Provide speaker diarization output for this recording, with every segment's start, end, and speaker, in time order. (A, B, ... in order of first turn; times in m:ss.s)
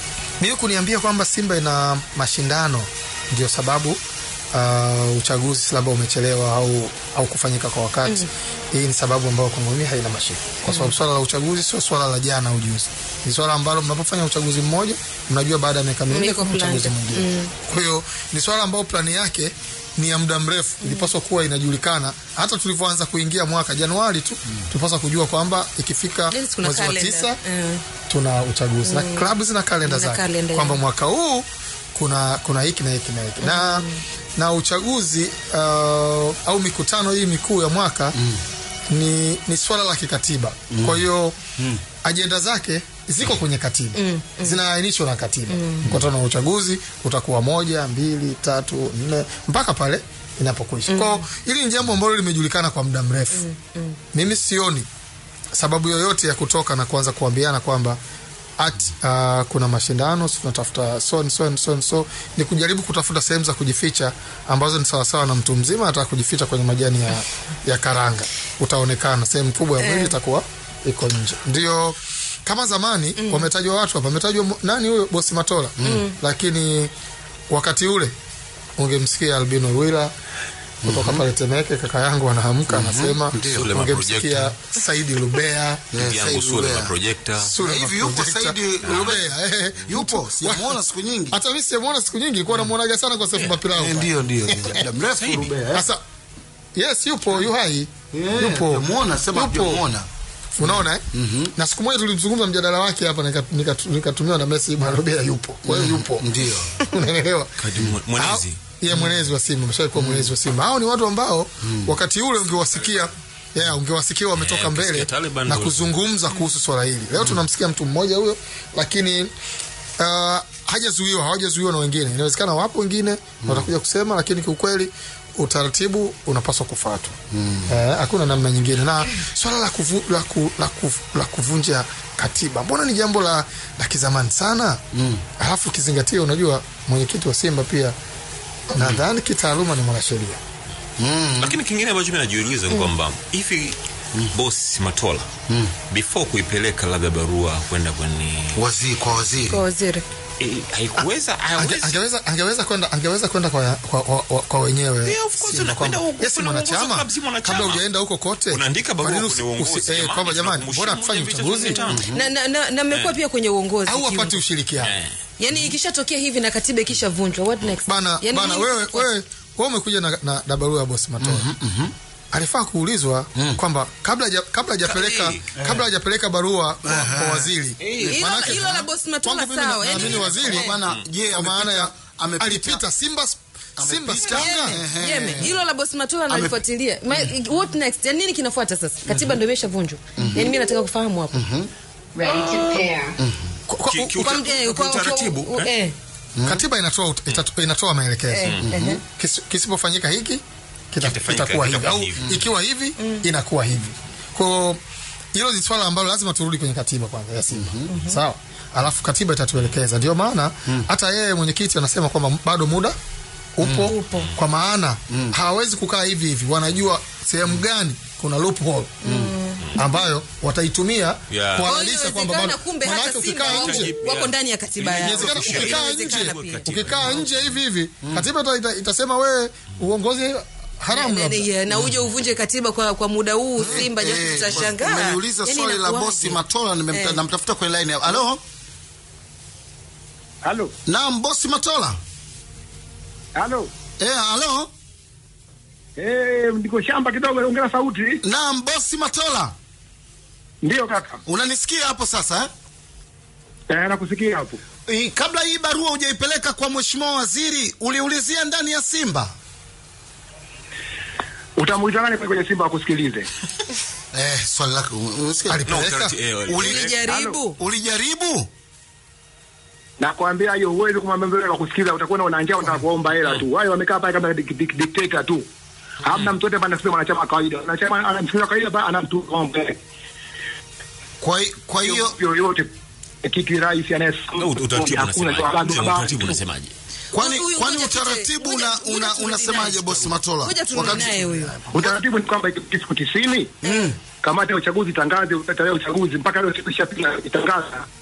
0:00.4-0:04.0 A
0:04.5-0:27.4 A
0:10.7-0:10.9 B
0:16.1-0:17.5 B
0:20.8-0:21.1 B
0:26.3-0:27.8 B
0:28.1-0:33.8 A
0:28.8-0:29.3 B
0:29.8-0:30.8 B
0:33.4-0:34.0 B
0:34.4-0:38.2 A
0:38.2-0:38.4 C
0:38.9-0:41.4 A
0:40.7-0:41.0 C
0:42.0-0:53.4 A
0:43.9-0:44.6 B
0:45.5-0:45.8 B
0:50.9-0:51.2 B
0:53.3-0:54.0 B
0:54.1-0:54.8 A
0:55.5-0:58.0 A
0:58.6-1:16.9 A
1:09.8-1:10.1 B
1:13.2-1:13.5 B
1:15.8-1:16.1 B
1:17.5-1:18.1 A
1:18.8-1:20.1 A
1:20.8-1:21.2 C
1:20.8-1:25.8 A
1:22.7-1:23.7 C
1:23.4-1:24.5 D
1:25.9-1:26.9 C
1:25.9-1:27.6 D
1:27.4-1:30.8 A
1:27.6-1:29.2 C
1:28.8-1:29.2 D
1:29.9-1:31.4 C
1:31.3-1:34.8 A
1:33.3-1:33.7 D
1:33.7-1:35.8 C
1:35.0-1:35.5 D
1:35.7-1:36.0 A
1:36.8-1:39.8 A
1:38.1-1:40.1 C
1:40.6-1:41.0 A
1:40.6-1:41.5 C
1:41.5-1:46.3 A
1:45.6-1:46.8 C
1:46.9-1:47.5 A
1:47.6-1:48.6 D
1:48.1-1:59.3 A
1:48.9-1:49.3 C
1:49.9-1:50.3 C
1:51.7-1:51.9 C
1:54.3-1:55.9 D
1:57.2-1:57.4 C
2:00.0-2:07.2 A
2:03.4-2:03.7 C
2:07.3-2:07.8 C
2:07.7-2:14.8 A
2:14.9-2:15.2 C
2:15.4-2:17.9 A
2:18.7-2:19.0 C
2:18.7-2:20.4 A
2:21.0-2:21.6 C
2:21.4-2:23.8 D
2:24.3-2:25.3 D
2:25.9-2:28.6 D
2:28.5-2:29.6 C
2:29.5-2:30.0 B
2:30.4-2:32.0 D
2:31.0-2:41.9 A
2:35.0-2:37.8 D
2:38.5-2:42.0 D
2:41.8-2:42.2 C
2:42.1-2:44.4 B
2:43.8-2:44.9 A
2:44.8-2:45.6 D
2:45.4-2:49.1 B
2:47.9-2:51.5 A
2:51.2-2:51.9 C
2:52.3-3:00.7 A
2:54.8-2:55.5 D
2:55.6-2:55.9 C
2:56.8-2:57.5 C
2:57.8-2:58.2 D
2:58.0-3:00.7 B
2:59.8-3:02.8 C
3:00.8-3:01.1 D
3:01.3-3:04.8 A
3:03.8-3:05.6 C
3:04.3-3:11.4 B
3:06.3-3:06.6 C
3:09.1-3:09.4 C
3:10.2-3:10.5 C
3:11.3-3:11.7 C
3:12.2-3:13.1 B
3:12.2-3:12.9 D
3:13.2-3:13.5 C
3:13.7-3:14.4 A
3:13.9-3:15.7 D
3:14.2-3:15.9 B
3:16.4-3:16.6 C
3:16.4-3:24.8 A
3:18.3-3:19.0 B
3:18.6-3:19.0 C
3:21.0-3:22.5 D
3:23.0-3:23.2 B
3:25.3-3:33.0 A
3:27.5-3:27.9 C
3:27.9-3:28.2 B
3:33.6-3:39.0 A
3:33.6-3:33.9 C
3:33.8-3:34.3 B
3:34.0-3:34.4 D
3:39.0-3:40.0 B
3:39.1-3:39.3 C
3:39.8-3:43.9 A
3:41.3-3:41.7 D
3:41.6-3:46.7 B
3:43.3-3:47.6 D
3:45.0-3:51.5 A
3:50.9-3:56.4 B
3:51.7-3:52.0 C
3:53.6-3:58.4 C
3:56.9-3:57.2 B
4:00.4-4:00.7 E
4:00.8-4:02.0 C
4:03.4-4:03.7 E
4:04.0-4:04.7 C
4:06.0-4:08.2 E
4:08.2-4:09.5 C
4:10.6-4:11.2 E
4:11.2-4:12.5 C
4:13.7-4:14.6 E
4:14.9-4:19.3 C
4:21.6-4:23.3 E
4:24.1-4:25.6 C
4:25.5-4:26.1 A
4:25.6-4:27.0 D
4:26.4-4:26.9 C
4:26.5-4:27.6 B
4:27.0-4:27.4 E
4:27.6-4:28.5 C
4:30.0-4:35.4 E
4:36.0-4:39.7 E
4:41.2-4:42.2 C
4:41.8-4:42.7 E
4:43.2-4:46.4 E
4:44.3-4:46.7 D
4:47.1-4:52.0 C
4:47.1-4:51.6 B
4:51.7-4:57.8 E
4:53.6-4:53.9 B
4:53.6-4:54.0 C